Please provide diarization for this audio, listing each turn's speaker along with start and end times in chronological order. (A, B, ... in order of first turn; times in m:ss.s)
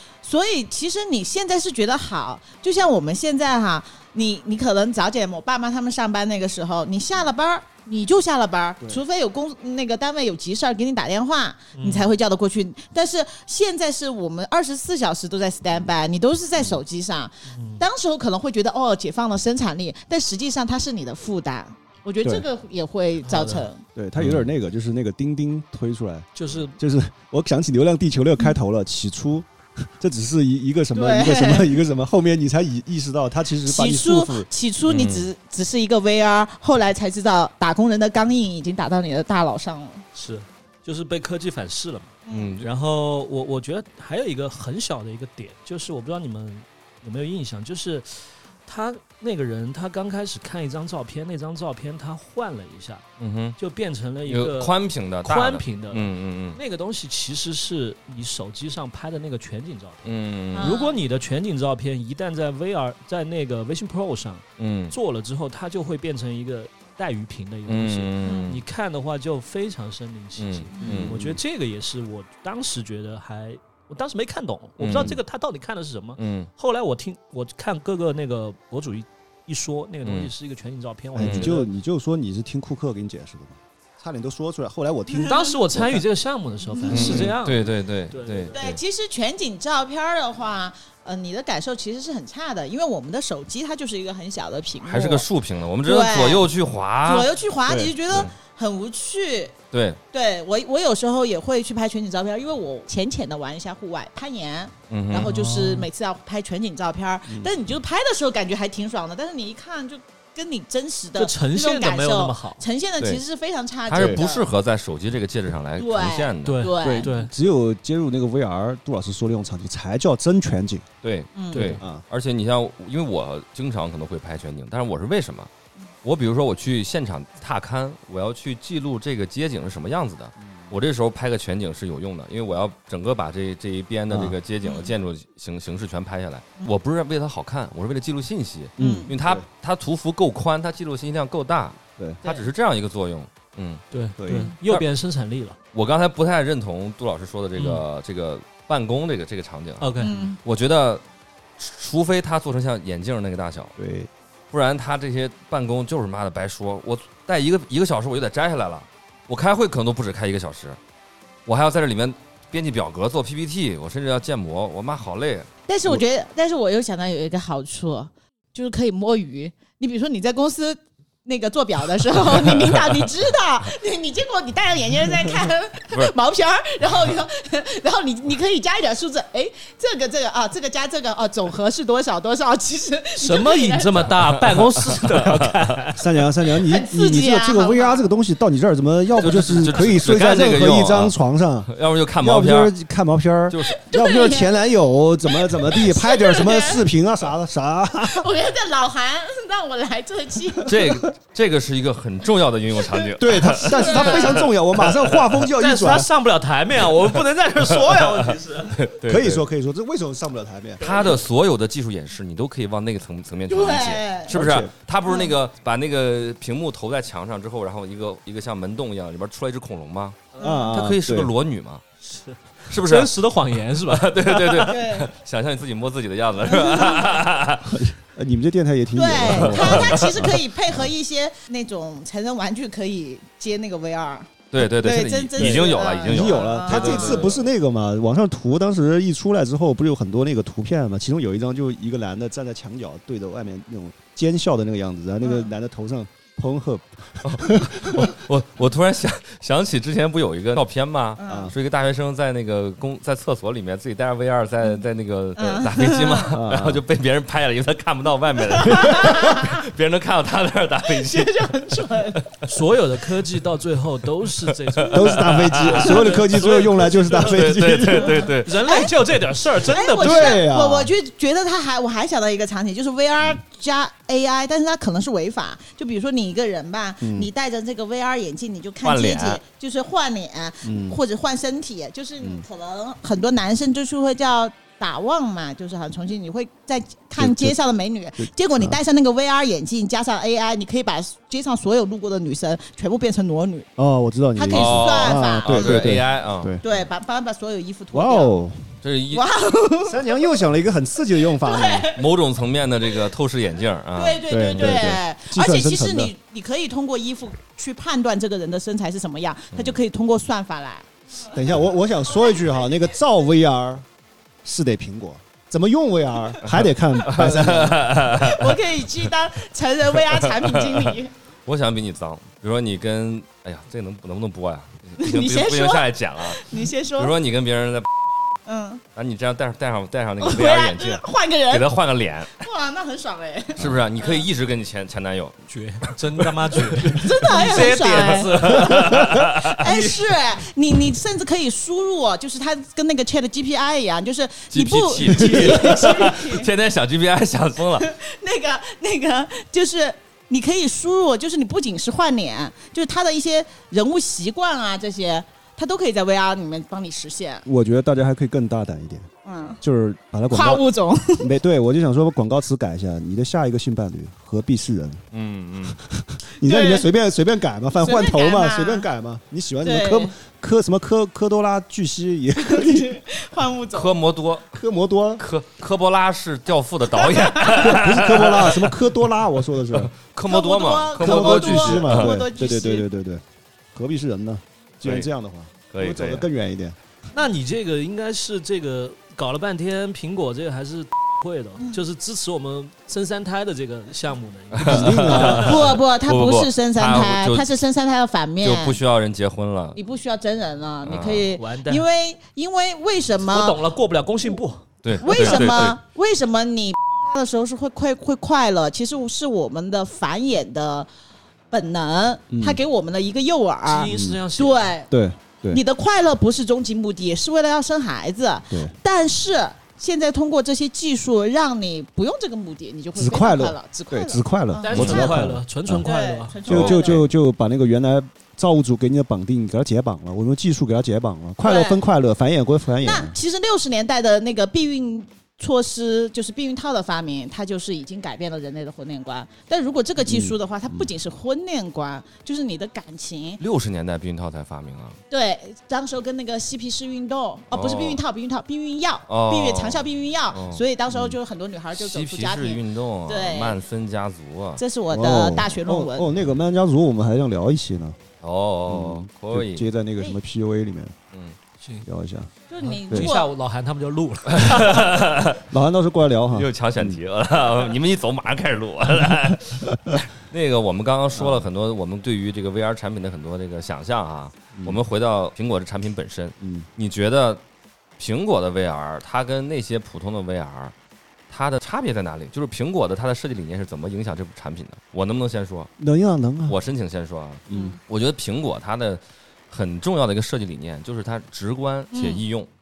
0:00.2-0:23.8 A
0:11.7-0:12.1 B
0:17.5-0:17.8 B
0:23.2-0:23.7 B
0:24.0-0:34.5 C
0:26.3-0:26.8 B
0:30.9-0:31.8 A
0:33.6-0:40.0 A
0:34.8-0:35.3 D
0:40.1-0:53.0 B
0:42.3-0:42.5 A
0:42.3-0:42.7 D
0:53.2-0:53.6 D
0:53.6-1:21.7 B
0:54.2-0:56.6 D
1:00.0-1:00.8 D
1:00.5-1:01.0 A
1:04.6-1:04.9 D
1:07.7-1:08.6 D
1:08.2-1:08.5 A
1:10.4-1:11.2 D
1:10.8-1:11.4 C
1:14.8-1:15.2 D
1:14.9-1:15.2 C
1:16.2-1:16.5 D
1:20.0-1:20.3 D
1:21.2-1:26.0 C
1:21.2-1:21.5 D
1:25.2-1:28.6 B
1:26.9-1:28.8 D
1:26.9-1:27.3 C
1:28.5-1:35.2 A
1:34.8-1:37.3 D
1:35.8-1:36.5 A
1:37.0-1:39.6 A
1:37.7-1:38.0 C
1:39.7-1:40.0 D
1:40.1-1:54.5 A
1:44.9-1:45.4 D
1:45.2-1:45.9 B
1:47.3-1:47.5 C
1:51.2-1:52.6 B
1:53.9-1:56.6 D
1:53.9-1:54.2 C
1:55.8-1:57.1 A
1:56.4-1:57.3 B
1:56.8-2:00.8 C
2:01.0-2:05.5 D
2:01.4-2:01.7 A
2:01.5-2:01.8 B
2:06.0-2:23.8 D
2:14.1-2:14.4 C
2:14.6-2:14.9 A
2:18.8-2:19.4 C
2:18.8-2:19.1 A
2:23.9-2:25.6 B
2:24.2-2:24.5 C
2:25.7-2:29.9 D
2:27.6-2:27.8 B
2:29.8-2:30.2 B
2:30.0-2:30.4 A
2:30.4-2:31.0 D
2:31.6-2:33.7 D
2:33.8-2:34.1 C
2:34.5-2:40.8 D
2:41.4-2:46.0 D
2:45.7-3:04.1 A
2:52.6-2:53.0 D
3:03.2-3:06.0 B
3:05.1-3:05.4 D
3:05.9-3:18.3 C
3:06.6-3:08.1 A
3:09.2-3:11.2 D
3:11.7-3:12.7 D
3:13.5-3:13.8 D
3:13.7-3:14.5 A
3:15.4-3:16.8 A
3:18.1-3:20.8 A
3:20.6-3:25.2 D
3:23.2-3:26.1 C
3:23.6-3:24.4 A
3:25.6-3:28.8 B
3:27.7-3:28.2 D
3:28.7-3:29.4 D
3:29.0-3:31.1 C
3:30.8-3:40.2 D
3:33.5-3:34.4 A
3:34.3-3:34.7 C
3:35.1-3:35.3 A
3:40.4-3:41.3 C
3:40.4-3:40.7 A
3:40.7-3:41.8 D
3:42.0-3:44.8 B
3:42.7-3:43.2 D
3:43.8-3:47.8 D
3:44.6-3:45.1 A
3:46.4-3:47.2 A
3:47.6-3:50.3 C
3:48.9-3:57.4 A
3:49.2-3:50.3 D
3:54.5-3:57.4 D
3:55.4-4:08.1 C
4:05.2-4:05.5 A
4:07.2-4:21.5 D
4:11.2-4:11.5 A
4:11.2-4:11.5 C
4:15.4-4:16.4 A
4:16.3-4:16.8 C
4:18.6-4:19.6 A
4:20.9-4:22.3 A
4:22.4-4:27.4 B
4:24.8-4:26.0 D
4:24.9-4:28.3 C
4:27.2-4:28.8 D
4:28.4-4:30.4 B
4:28.6-4:28.9 A
4:29.6-4:53.7 A
4:29.9-4:30.9 C
4:37.0-4:37.3 C
4:38.8-4:39.4 D
4:40.6-4:41.0 C
4:42.2-4:42.4 C
4:47.2-4:47.6 C
4:48.2-4:48.8 C
4:53.8-4:56.7 C
4:54.3-4:55.9 A
4:54.5-4:56.5 D
4:56.6-4:58.3 A
4:57.9-4:58.8 C
4:58.8-4:59.2 D
4:59.1-5:00.0 A
4:59.8-5:01.9 C
5:01.2-5:02.1 A
5:02.0-5:05.0 D
5:03.9-5:11.4 A
5:04.3-5:06.1 C
5:11.3-5:13.8 C
5:12.1-5:12.4 A
5:14.4-5:18.1 C
5:17.0-5:18.6 D
5:18.1-5:21.1 A
5:20.1-5:20.9 D
5:21.4-5:27.9 D
5:25.0-5:27.2 A
5:28.4-5:28.8 A
5:28.9-5:32.4 D
5:30.2-5:34.2 A
5:33.6-5:35.9 D
5:35.5-5:39.2 B
5:36.5-5:40.0 D
5:36.9-5:46.5 A
5:44.5-5:47.9 D
5:47.8-5:57.4 A
5:57.4-5:59.1 C
5:59.2-5:59.6 A
5:59.6-6:00.6 C
6:00.3-6:01.3 A
6:01.2-6:05.0 C
6:05.1-6:05.8 D
6:05.6-6:13.0 C
6:06.4-6:06.8 A
6:07.8-6:08.8 A
6:09.6-6:10.1 A
6:12.4-6:14.0 A
6:13.7-6:14.4 D
6:14.5-6:15.2 C
6:15.2-6:18.9 D
6:16.9-6:17.8 A
6:17.6-6:19.9 C
6:19.7-6:22.1 D
6:20.3-6:22.9 A
6:21.0-6:23.2 C
6:23.7-6:26.8 C
6:24.8-6:25.1 D
6:25.7-6:26.3 D
6:27.1-6:35.4 B
6:34.5-6:37.5 D
6:34.6-6:35.7 C
6:35.2-6:38.8 A
6:38.4-6:39.8 D
6:39.7-6:43.6 A
6:40.8-6:41.3 D
6:41.3-6:41.8 B
6:43.3-6:45.6 B
6:44.8-6:45.8 D
6:45.0-6:50.9 A
6:51.5-6:54.9 A
6:52.3-6:52.6 C
6:53.6-6:54.7 B
6:53.9-6:54.2 C
6:54.9-6:55.6 C
6:55.5-7:05.3 A
6:58.5-6:58.7 C
7:02.9-7:05.9 C
7:04.6-7:06.4 B
7:04.7-7:05.1 D
7:05.8-7:07.0 A
7:06.4-7:07.0 D
7:06.4-7:13.2 C
7:11.4-7:11.8 A
7:12.8-7:23.4 A
7:20.0-7:20.9 C
7:23.4-7:25.0 D
7:25.1-7:33.6 A
7:27.5-7:28.0 D
7:29.1-7:30.6 D
7:31.7-7:34.6 D
7:34.6-7:36.1 A
7:34.9-7:38.0 C
7:38.2-7:39.7 D
7:38.7-7:41.0 C
7:41.6-7:41.9 B
7:41.8-7:42.3 C
7:42.5-7:43.3 A
7:42.6-7:44.9 B
7:44.3-7:45.4 D
7:45.5-7:47.0 C
7:46.3-7:57.4 D
7:51.1-7:51.5 C
7:54.6-7:54.8 C
7:56.4-7:56.7 C
7:58.0-8:00.7 D
8:01.3-8:05.7 D
8:05.8-8:06.6 C
8:06.5-8:12.5 D
8:07.5-8:07.8 C
8:07.5-8:07.8 A
8:11.9-8:12.2 A